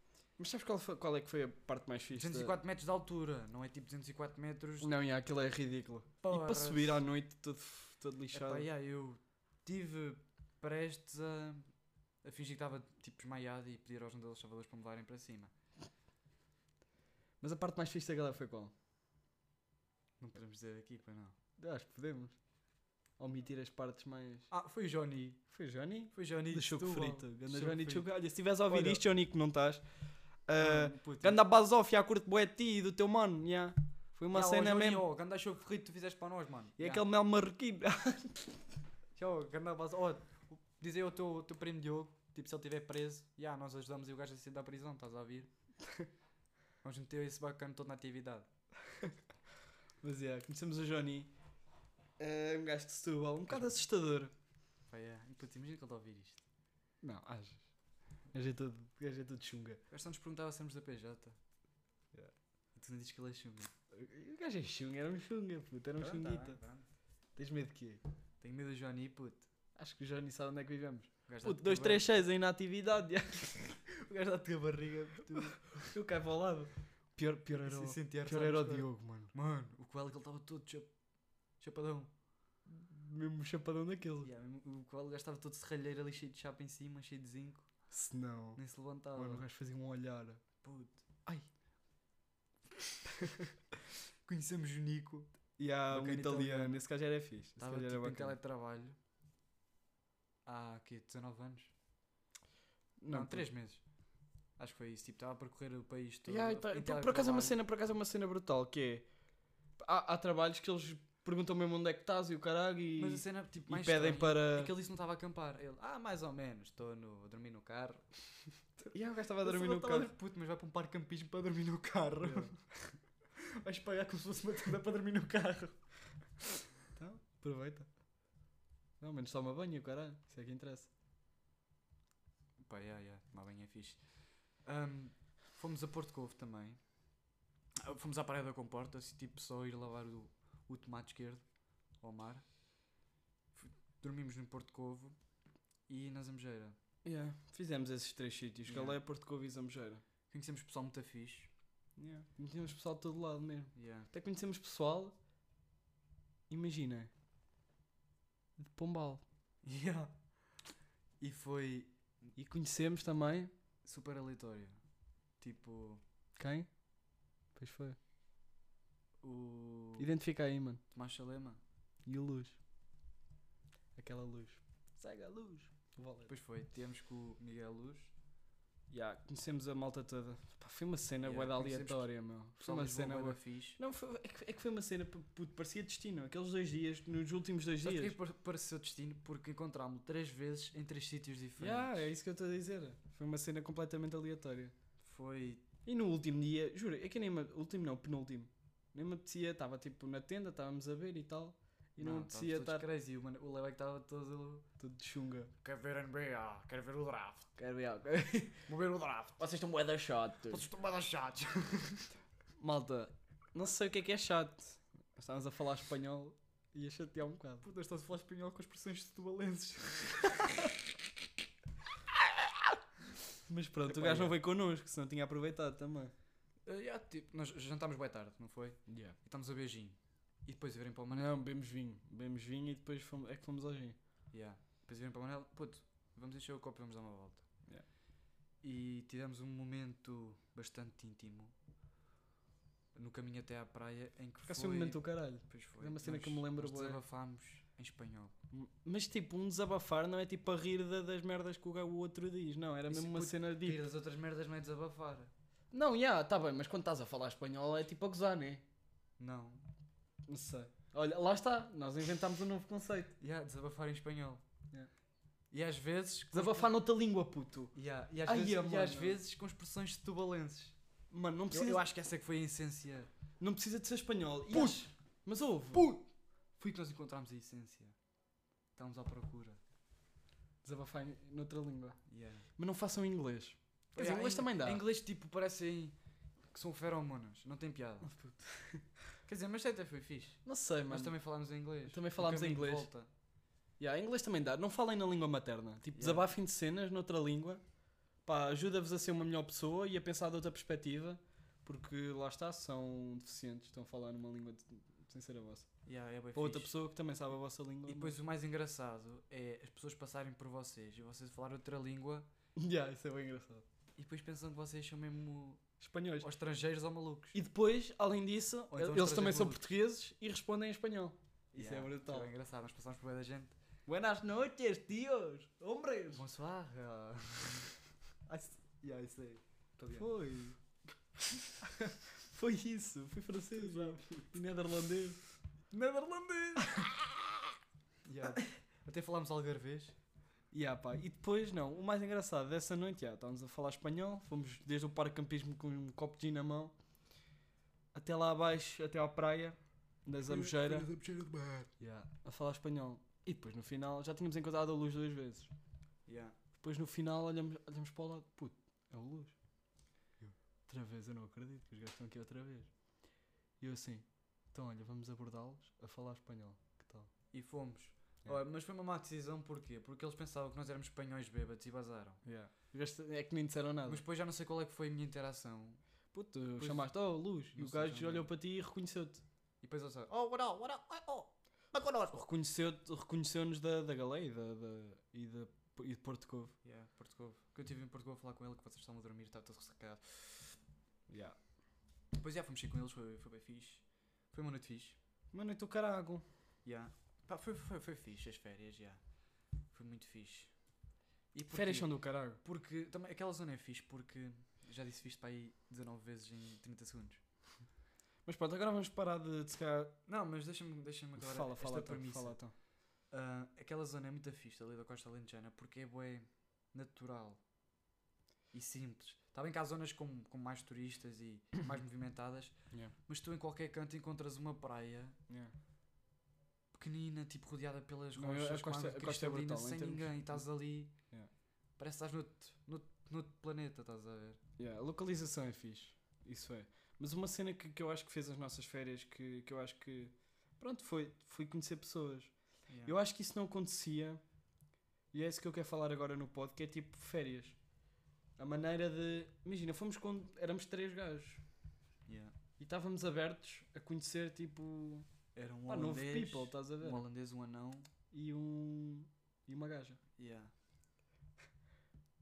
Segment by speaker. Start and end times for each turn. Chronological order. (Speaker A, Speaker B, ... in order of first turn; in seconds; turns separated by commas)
Speaker A: 0.4-2.5, Speaker B: 2.1-4.9, Speaker A: 4.8-8.7, Speaker B: 6.2-7.0, Speaker B: 8.3-11.7, Speaker B: 12.2-15.5, Speaker A: 17.4-18.7, Speaker B: 20.2-21.3, Speaker A: 21.6-22.3, Speaker A: 23.2-24.5, Speaker B: 24.5-25.4, Speaker A: 25.5-29.8, Speaker B: 26.1-28.1, Speaker B: 28.6-29.0, Speaker A: 30.4-35.0, Speaker B: 30.6-31.4, Speaker B: 34.3-37.0, Speaker A: 36.8-38.6, Speaker B: 39.1-45.5, Speaker B: 46.8-48.5, Speaker A: 50.0-51.3, Speaker A: 52.2-54.3, Speaker B: 53.5-53.7, Speaker B: 54.9-56.4, Speaker A: 57.0-57.6, Speaker A: 58.3-59.8, Speaker B: 59.9-61.4, Speaker B: 62.7-63.7, Speaker A: 63.9-66.6, Speaker B: 66.0-66.9, Speaker A: 67.3-68.0, Speaker B: 68.4-69.5, Speaker A: 69.7-73.8, Speaker B: 71.3-72.1, Speaker B: 73.9-75.9, Speaker A: 75.3-79.3, Speaker B: 77.5-80.9, Speaker B: 81.6-82.1, Speaker A: 82.7-84.3, Speaker B: 84.2-87.7, Speaker A: 87.9-88.6, Speaker B: 88.5-89.4, Speaker A: 89.1-90.4, Speaker B: 90.6-91.4, Speaker A: 93.2-93.5, Speaker B: 94.2-95.3, Speaker A: 95.6-98.3, Speaker B: 95.9-96.8, Speaker B: 97.6-99.0, Speaker B: 100.5-101.7, Speaker A: 103.0-103.5, Speaker B: 103.1-103.8, Speaker B: 104.6-107.6, Speaker A: 106.3-109.0, Speaker A: 109.8-114.7, Speaker B: 113.0-125.8, Speaker A: 118.9-120.1, Speaker A: 122.2-122.5, Speaker A: 126.9-127.9, Speaker A: 129.0-130.9, Speaker B: 132.6-136.8, Speaker B: 137.8-141.4, Speaker B: 142.0-142.4, Speaker B: 143.5-145.2, Speaker B: 145.9-146.8, Speaker A: 147.0-150.0, Speaker B: 148.7-149.0, Speaker B: 150.3-151.5, Speaker A: 152.0-155.2, Speaker B: 153.7-154.1, Speaker A: 156.5-157.1, Speaker A: 158.6-159.2, Speaker B: 159.6-160.1, Speaker B: 161.2-162.3, Speaker A: 162.4-163.5, Speaker B: 163.8-164.8, Speaker B: 165.4-166.0, Speaker A: 166.3-166.7, Speaker A: 167.5-168.0, Speaker B: 169.2-170.1, Speaker A: 170.0-170.8, Speaker B: 170.9-171.6, Speaker A: 172.1-172.6, Speaker A: 173.9-176.3, Speaker B: 176.3-178.1, Speaker A: 178.9-188.2, Speaker B: 181.2-183.8, Speaker B: 187.8-192.1, Speaker A: 191.6-194.7, Speaker B: 195.0-195.7, Speaker A: 195.8-202.8, Speaker B: 202.0-204.7, Speaker A: 204.8-205.5, Speaker B: 205.6-207.5, Speaker A: 207.6-208.7, Speaker B: 208.7-209.4, Speaker A: 209.4-210.7, Speaker B: 210.5-212.1, Speaker A: 212.6-217.6, Speaker B: 217.6-220.8, Speaker A: 223.4-226.1, Speaker B: 223.8-224.4, Speaker B: 226.7-231.3, Speaker A: 228.9-229.2, Speaker A: 231.1-234.0, Speaker B: 234.3-237.4, Speaker B: 238.6-241.5, Speaker B: 242.9-248.3, Speaker A: 244.4-247.0, Speaker A: 248.5-253.8, Speaker B: 252.9-255.3, Speaker A: 255.7-258.6, Speaker B: 259.2-259.6, Speaker A: 260.3-263.1, Speaker B: 263.2-264.4, Speaker B: 265.5-266.7, Speaker A: 266.3-269.2, Speaker B: 267.7-270.8, Speaker A: 271.1-271.8, Speaker B: 271.5-273.1, Speaker A: 273.4-275.9, Speaker B: 274.5-274.9, Speaker B: 275.7-277.9, Speaker B: 278.8-279.6, Speaker A: 280.6-282.0, Speaker B: 282.1-282.5, Speaker A: 282.6-284.8, Speaker B: 283.9-285.9, Speaker B: 286.5-288.1, Speaker A: 288.0-288.8, Speaker B: 289.2-293.1, Speaker A: 290.4-291.2, Speaker A: 291.8-292.9, Speaker A: 293.8-297.6, Speaker B: 295.9-296.2, Speaker A: 298.2-305.7, Speaker B: 305.9-306.7, Speaker A: 306.3-308.1, Speaker B: 307.9-312.3, Speaker A: 312.6-313.6, Speaker B: 314.0-315.6, Speaker A: 315.8-316.3, Speaker B: 316.2-317.4, Speaker A: 317.3-322.3, Speaker B: 318.7-319.6, Speaker B: 321.5-323.5, Speaker A: 323.9-326.2, Speaker B: 326.1-327.7, Speaker B: 328.3-330.1, Speaker A: 329.9-330.6, Speaker A: 331.8-335.2, Speaker B: 333.5-334.3, Speaker B: 335.7-337.0, Speaker B: 338.0-339.9, Speaker A: 340.5-346.7, Speaker A: 347.9-350.9, Speaker B: 350.2-351.7, Speaker A: 351.8-355.5, Speaker B: 356.1-356.4, Speaker A: 356.6-359.3, Speaker A: 360.7-362.7, Speaker A: 363.6-367.1, Speaker B: 367.3-372.2, Speaker A: 372.2-374.0, Speaker B: 373.9-375.8, Speaker A: 376.1-379.2, Speaker B: 376.6-376.9, Speaker B: 377.5-378.3, Speaker B: 379.6-382.1, Speaker A: 382.1-386.5, Speaker B: 386.6-390.6, Speaker A: 391.1-391.4, Speaker B: 392.2-395.0, Speaker A: 395.3-396.2, Speaker B: 396.6-399.0, Speaker B: 399.7-400.5, Speaker B: 401.3-407.2, Speaker A: 401.5-402.4, Speaker A: 408.2-410.0, Speaker B: 410.1-412.4, Speaker A: 411.2-412.5, Speaker B: 413.1-417.4, Speaker B: 418.5-422.6, Speaker B: 423.1-425.2, Speaker A: 425.3-425.5, Speaker B: 426.7-430.9, Speaker A: 428.1-430.4, Speaker B: 431.8-434.4, Speaker A: 434.6-442.3, Speaker B: 442.7-443.0, Speaker A: 442.8-444.2, Speaker A: 445.1-447.6, Speaker A: 448.4-451.4, Speaker B: 452.1-452.3, Speaker A: 452.6-455.1, Speaker B: 455.3-457.9, Speaker A: 455.7-457.1, Speaker A: 458.1-460.0, Speaker B: 460.2-460.5